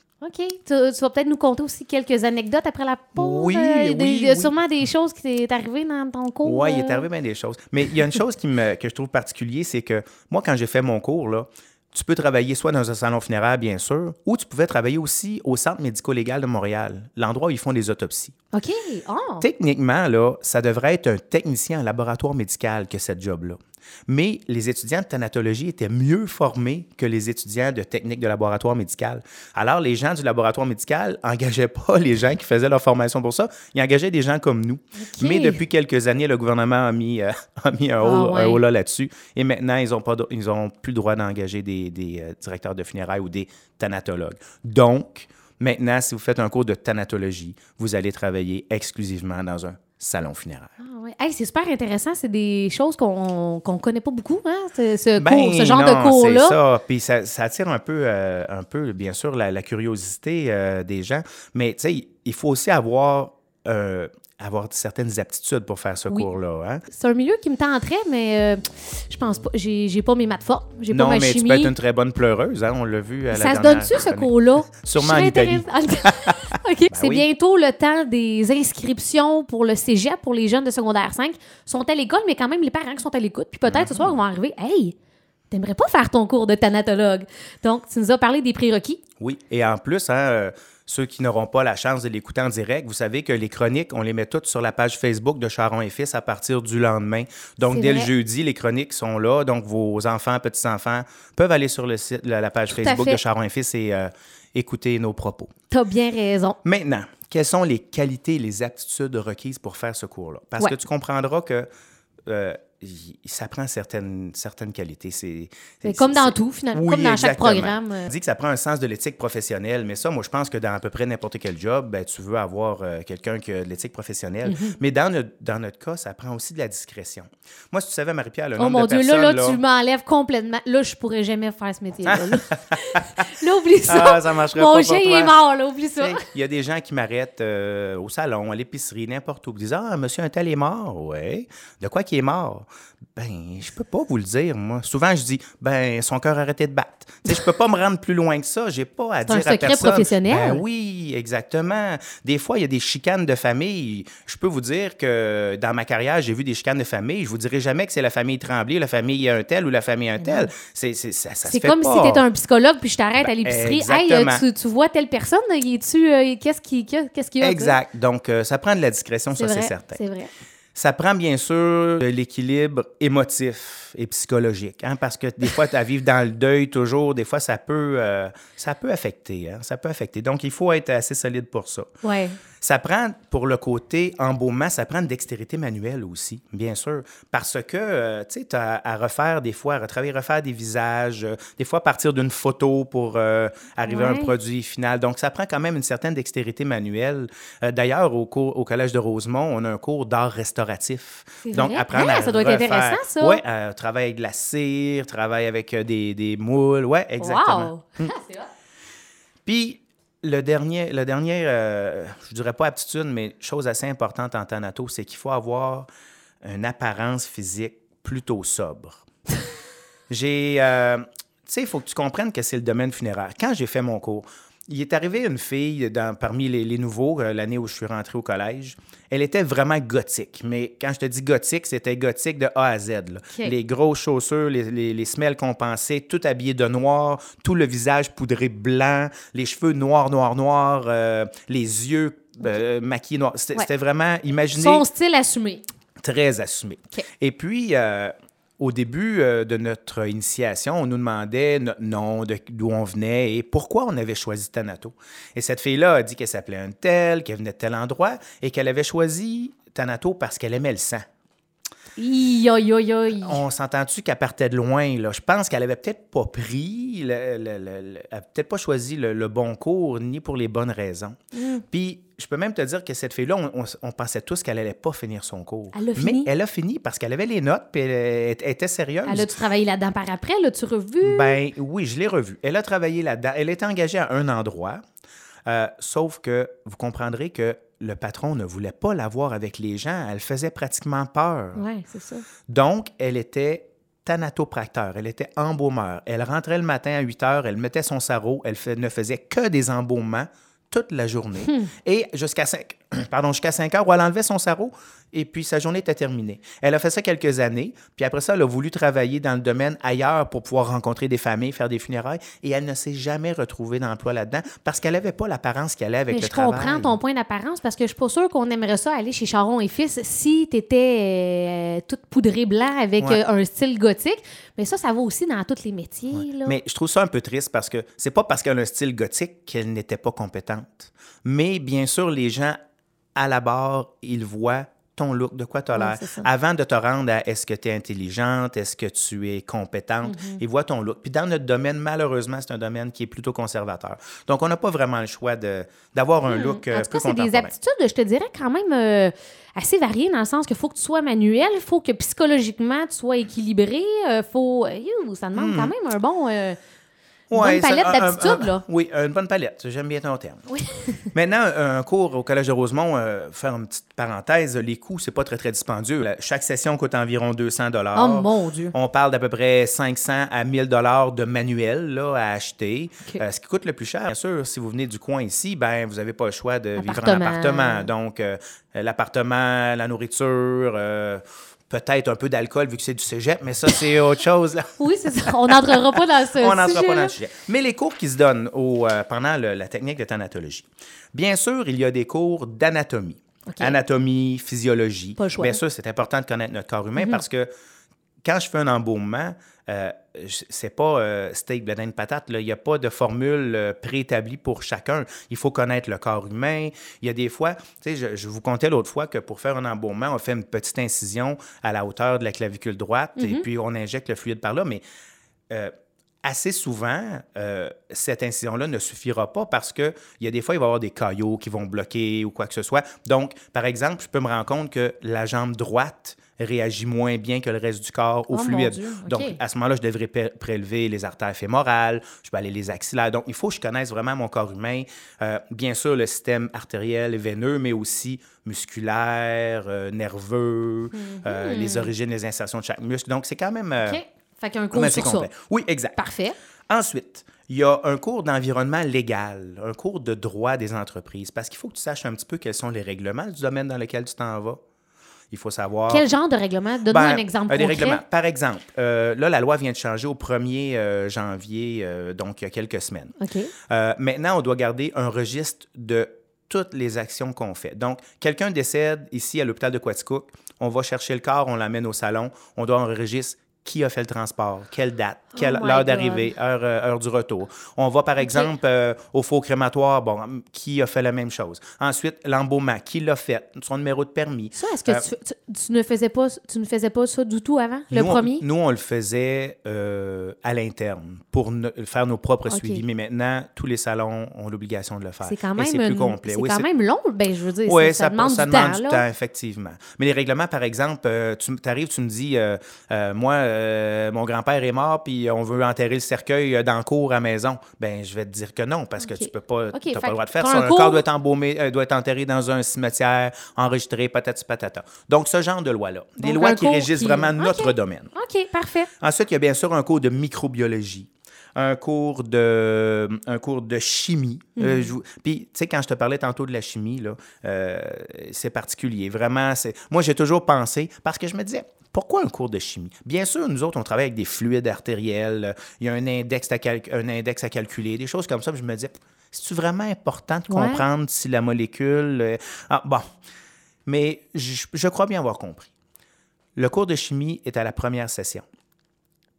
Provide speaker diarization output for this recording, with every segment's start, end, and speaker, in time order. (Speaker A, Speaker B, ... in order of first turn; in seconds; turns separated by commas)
Speaker A: 0.2-7.0, Speaker B: 3.1-4.5, Speaker B: 6.4-18.3, Speaker A: 18.5-19.4, Speaker B: 19.4-50.7, Speaker A: 35.0-35.6, Speaker A: 38.0-38.6, Speaker A: 50.8-56.6, Speaker B: 55.2-66.8, Speaker A: 66.9-71.7, Speaker B: 70.9-76.4, Speaker A: 73.3-84.9, Speaker B: 76.9-77.2, Speaker B: 83.7-84.2, Speaker A: 85.5-89.0, Speaker B: 89.2-105.5, Speaker A: 97.6-98.1, Speaker A: 102.7-103.2, Speaker A: 105.7-106.6, Speaker B: 106.6-111.7, Speaker B: 112.2-129.6, Speaker A: 115.8-118.1, Speaker A: 124.4-124.8, Speaker A: 128.6-136.2, Speaker B: 132.1-133.2, Speaker B: 133.8-135.3, Speaker B: 136.0-162.2, Speaker A: 149.3-150.6, Speaker A: 160.2-160.5, Speaker A: 161.4-167.8, Speaker B: 163.2-164.4, Speaker B: 167.4-170.0, Speaker A: 169.3-170.3, Speaker B: 170.7-181.9, Speaker A: 182.0-182.4, Speaker B: 182.6-208.1, Speaker A: 193.9-194.3, Speaker A: 201.4-203.4, Speaker A: 207.2-208.5, Speaker B: 209.4-215.9, Speaker B: 216.4-219.1, Speaker B: 220.1-244.8, Speaker A: 244.5-245.6, Speaker B: 246.0-261.0, Speaker A: 262.0-263.4, Speaker B: 263.2-271.2, Speaker A: 271.3-271.6, Speaker B: 271.7-279.3, Speaker A: 275.7-276.3, Speaker A: 279.1-281.4, Speaker B: 281.0-284.8, Speaker B: 285.4-291.6, Speaker A: 291.6-292.2, Speaker B: 292.5-317.0, Speaker A: 316.1-326.6, Speaker B: 326.1-332.6, Speaker B: 333.1-347.5, Speaker A: 335.7-336.3, Speaker A: 340.0-340.4, Speaker A: 346.3-356.6, Speaker B: 355.3-355.7, Speaker B: 357.3-360.4, Speaker A: 357.3-358.6, Speaker A: 360.5-361.1, Speaker B: 361.1-397.5, Speaker A: 367.9-368.7, Speaker A: 376.8-377.9, Speaker A: 384.8-387.1, Speaker A: 393.5-393.8, Speaker A: 395.2-395.6, Speaker B: 398.2-414.8, Speaker A: 413.2-413.4, Speaker B: 415.5-444.0, Speaker A: 428.3-429.4, Speaker A: 440.9-441.9, Speaker A: 443.8-445.3, Speaker B: 444.7-446.0, Speaker A: 446.0-446.3, Speaker B: 446.7-454.6, Speaker B: 455.3-456.1, Speaker A: 455.9-458.0, Speaker B: 456.9-463.1, Speaker A: 463.2-463.5, Speaker B: 463.7-485.1, Speaker A: 475.4-476.3, Speaker A: 478.2-478.5, Speaker A: 484.5-488.4, Speaker B: 487.9-496.7, Speaker A: 492.5-492.8, Speaker A: 495.2-499.0, Speaker B: 497.6-518.1, Speaker A: 509.0-511.0, Speaker A: 516.2-518.9, Speaker B: 519.0-543.0, Speaker A: 524.5-524.9, Speaker A: 540.5-540.8, Speaker B: 543.9-545.7, Speaker B: 546.5-548.5